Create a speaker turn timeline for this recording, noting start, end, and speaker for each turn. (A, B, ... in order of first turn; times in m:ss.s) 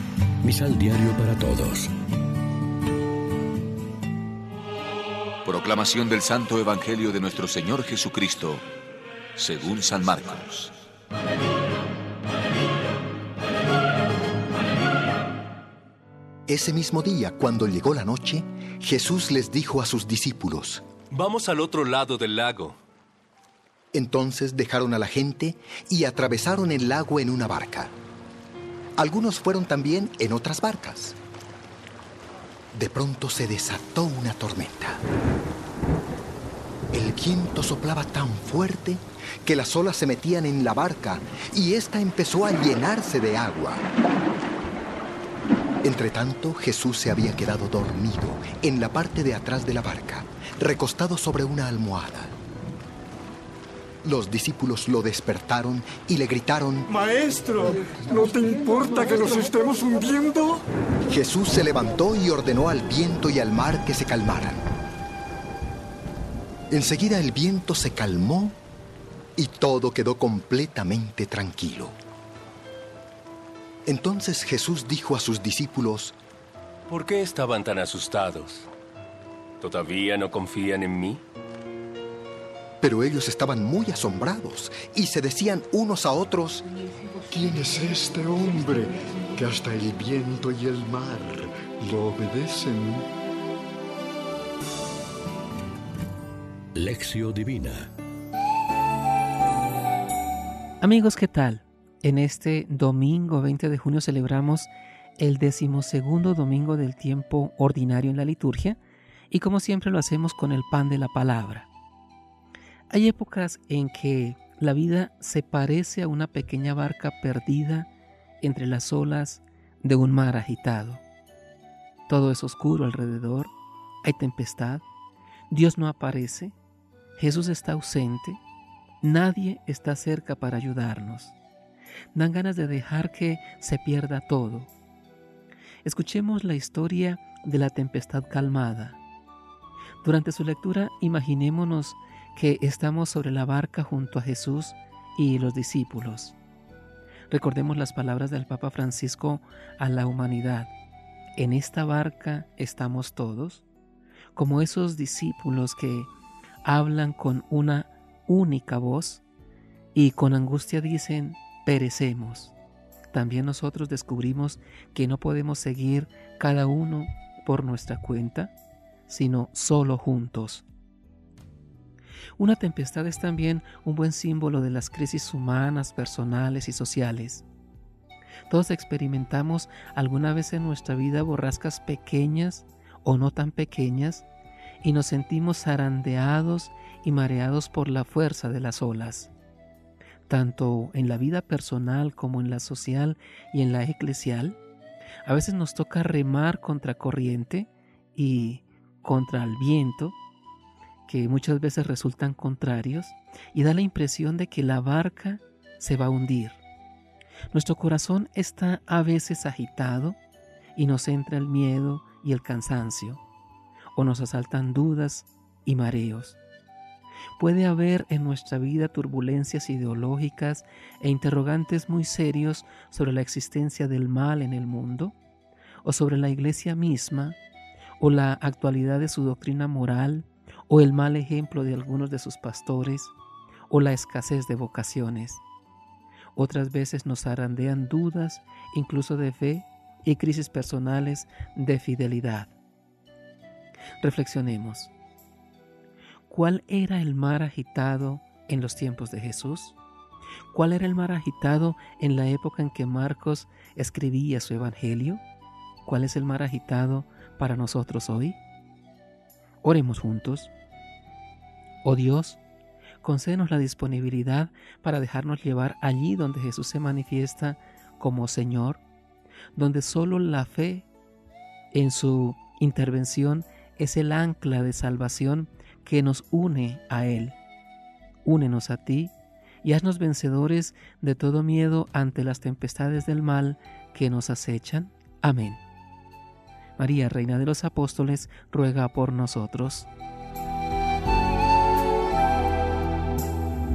0:00.4-0:01.9 A
0:05.4-0:08.6 B
0:09.4-0:10.7 B
0:16.5-0:20.8 C
0:21.1-0:22.8 D
0:23.9-0:27.9 C
0:29.0-0:31.2 C
0:32.7-0:35.0 C
0:36.9-0:43.8 C
0:45.8-0:52.3 C
0:54.0-0:56.9 C
0:57.1-1:00.6 E
1:01.1-1:04.6 C
1:06.7-1:08.6 C
1:09.4-1:11.9 C
1:13.9-1:16.2 C
1:16.9-1:18.7 D
1:19.6-1:21.2 D
1:22.8-1:26.6 C
1:27.3-1:33.1 E
1:36.7-1:37.9 A
1:40.8-1:48.8 F
1:49.3-1:51.7 F
1:52.9-1:57.9 F
1:58.4-2:01.0 F
2:02.1-2:04.8 F
2:05.5-2:06.6 F
2:07.2-2:08.4 F
2:09.0-2:11.4 F
2:12.1-2:14.7 F
2:15.8-2:19.0 F
2:20.0-2:26.4 F
2:27.3-2:30.7 F
2:31.4-2:33.6 F
2:34.4-2:36.1 F
2:36.6-2:39.2 F
2:39.9-2:42.5 F
2:43.1-2:48.5 F
2:49.1-2:50.6 F
2:52.4-2:57.4 F
2:58.5-3:04.2 F
3:04.8-3:09.3 F
3:10.3-3:14.6 F
3:15.2-3:20.2 F
3:21.0-3:26.6 F
3:27.5-3:30.2 F
3:30.7-3:33.2 F
3:34.0-3:36.4 F
3:37.4-3:45.1 F
3:45.8-3:47.4 F
3:48.0-3:53.1 F
3:53.7-3:55.4 F
3:56.3-4:02.5 F
4:04.0-4:04.9 F
4:06.3-4:09.8 F
4:10.5-4:15.2 F
4:15.8-4:18.4 F
4:19.6-4:20.5 F
4:21.8-4:22.4 F
4:23.0-4:28.8 F
4:29.5-4:30.9 F
4:31.7-4:37.4 F
4:38.2-4:45.6 F
4:46.8-4:49.9 F